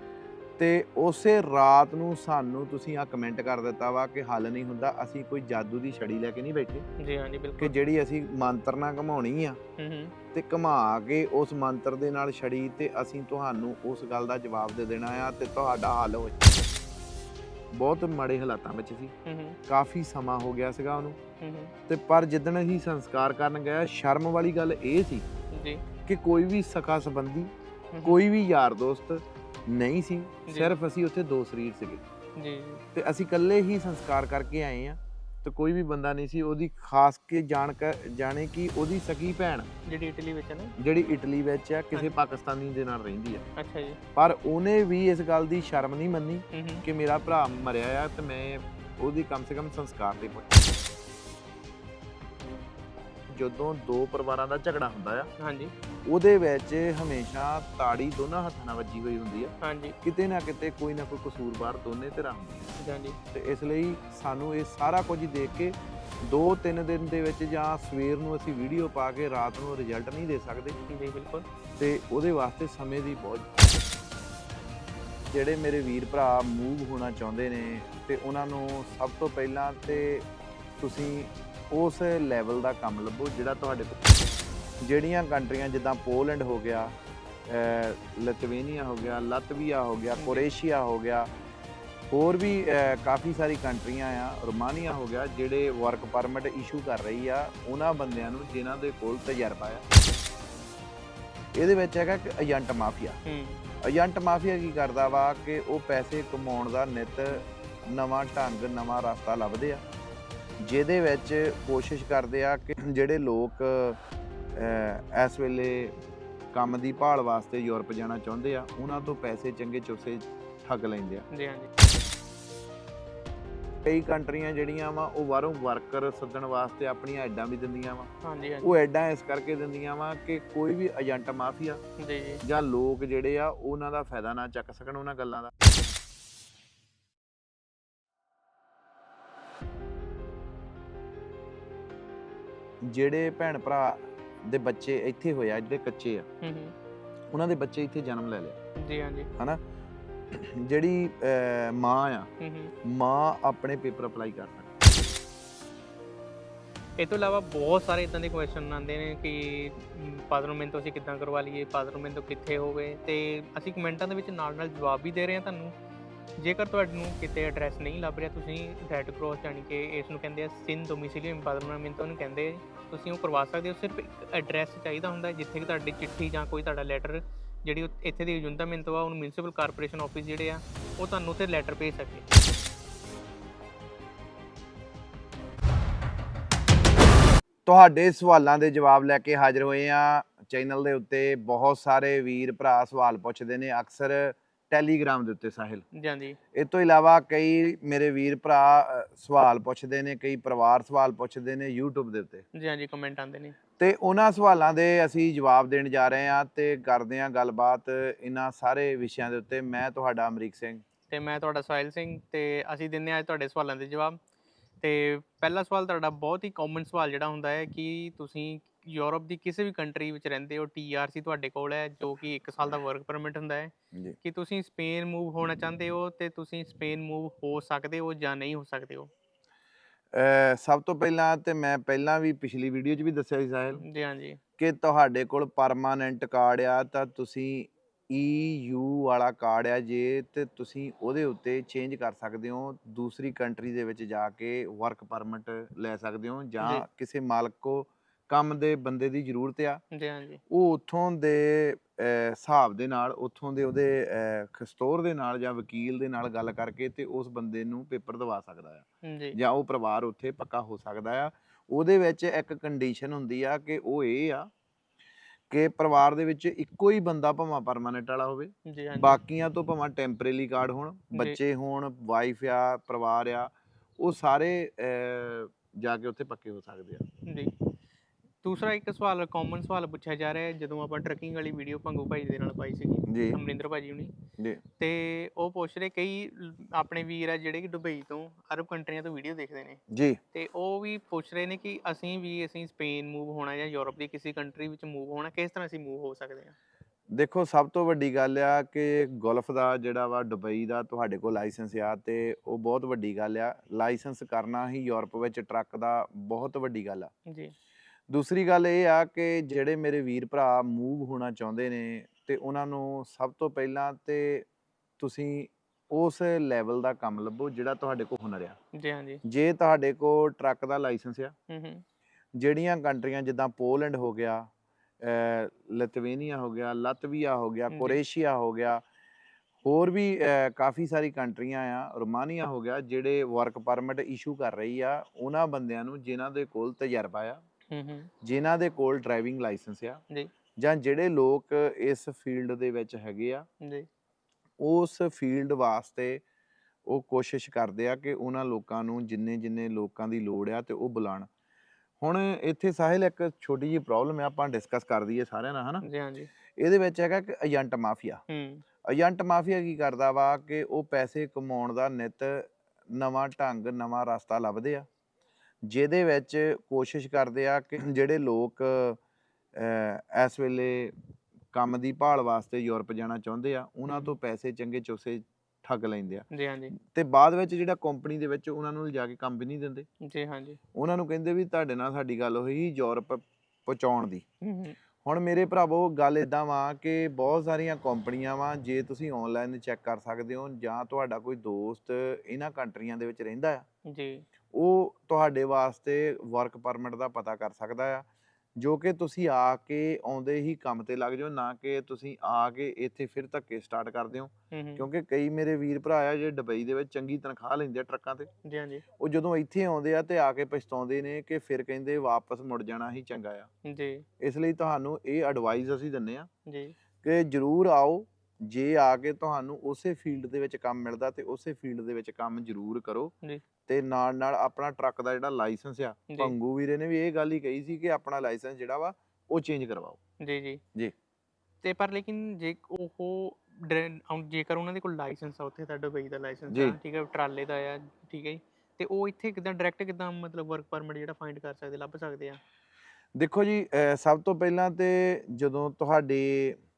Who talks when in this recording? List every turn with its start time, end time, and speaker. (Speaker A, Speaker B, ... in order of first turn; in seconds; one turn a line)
Speaker A: 0.6-6.8
Speaker B: 7.0-7.7
Speaker A: 7.6-9.6
Speaker B: 9.8-10.1
Speaker A: 10.3-16.6
Speaker A: 17.7-19.1
Speaker B: 19.2-19.6
Speaker A: 19.7-21.2
Speaker B: 21.4-21.7
Speaker A: 21.9-25.2
Speaker B: 25.5-25.8
Speaker A: 26.0-27.5
Speaker B: 27.9-28.2
Speaker A: 28.0-32.0
Speaker B: 32.4-32.8
Speaker A: 32.9-39.7
Speaker B: 39.9-40.8
Speaker A: 40.8-43.4
Speaker B: 43.5-44.0
Speaker A: 44.1-50.7
Speaker B: 46.5-46.8
Speaker A: 53.3-55.3
Speaker B: 55.4-55.7
Speaker A: 56.1-62.7
Speaker B: 59.6-60.0
Speaker B: 62.8-63.2
Speaker A: 63.3-70.8
Speaker B: 70.9-71.5
Speaker A: 71.8-73.6
Speaker A: 75.3-80.2
Speaker A: 80.8-84.0
Speaker A: 84.8-86.9
Speaker A: 87.5-91.3
Speaker B: 90.2-90.5
Speaker A: 92.1-99.8
Speaker A: 101.5-103.2
Speaker B: 103.2-103.6
Speaker A: 103.8-109.8
Speaker A: 110.6-114.0
Speaker A: 114.5-115.9
Speaker A: 116.5-121.2
Speaker B: 121.3-121.7
Speaker A: 123.8-128.1
Speaker B: 128.2-128.7
Speaker A: 128.6-131.8
Speaker B: 132.0-132.4
Speaker A: 132.4-135.5
Speaker A: 142.8-146.3
Speaker B: 146.4-146.7
Speaker A: 147.3-148.6
Speaker B: 148.8-149.3
Speaker A: 150.3-152.3
Speaker B: 152.4-152.7
Speaker A: 152.8-154.7
Speaker B: 157.0-165.7
Speaker B: 166.4-182.2
Speaker A: 187.7-195.8
Speaker B: 195.9-196.4
Speaker A: 196.5-202.4
Speaker B: 202.5-203.6
Speaker A: 203.8-210.8
Speaker B: 211.1-214.2
Speaker B: 214.8-229.1
Speaker A: 230.1-233.8
Speaker B: 233.8-234.4
Speaker A: 234.6-249.8
Speaker B: 249.9-250.4
Speaker A: 250.5-264.5
Speaker B: 259.0-259.4
Speaker A: 265.5-277.0
Speaker B: 268.6-269.2
Speaker B: 277.2-277.5
Speaker B: 278.4-284.2
Speaker A: 283.1-283.4
Speaker B: 284.8-289.8
Speaker A: 289.9-290.2
Speaker B: 290.3-296.5
Speaker A: 297.1-307.1
Speaker B: 307.3-307.5
Speaker A: 308.1-314.4
Speaker A: 315.0-318.6
Speaker B: 318.7-319.2
Speaker A: 319.2-321.3
Speaker B: 321.5-321.8
Speaker A: 322.4-324.5
Speaker A: 325.0-328.8
Speaker B: 327.7-328.0
Speaker A: 329.6-337.4
Speaker B: 337.7-338.1
Speaker A: 338.2-340.0
Speaker A: 340.6-343.4
Speaker B: 343.6-343.9
Speaker A: 344.6-346.2
Speaker A: 346.9-351.3
Speaker A: 352.0-355.9
Speaker B: 355.8-356.3
Speaker A: 356.6-358.2
Speaker B: 358.3-358.6
Speaker A: 358.9-364.9
Speaker A: 365.6-369.0
Speaker A: 369.5-370.9
Speaker A: 371.5-379.9
Speaker B: 373.9-374.1
Speaker B: 376.3-376.7
Speaker B: 380.0-380.6
Speaker A: 380.7-384.2
Speaker B: 384.4-384.8
Speaker A: 385.0-393.6
Speaker B: 393.8-394.2
Speaker A: 394.5-398.1
Speaker A: 398.6-408.3
Speaker B: 404.5-404.9
Speaker B: 408.4-408.8
Speaker A: 409.0-413.5
Speaker B: 413.6-414.0
Speaker A: 414.2-416.3
Speaker B: 416.4-416.8
Speaker A: 417.0-423.1
Speaker A: 423.6-430.0
Speaker B: 430.2-430.6
Speaker B: 431.6-442.4
Speaker A: 436.5-436.8
Speaker A: 443.1-446.6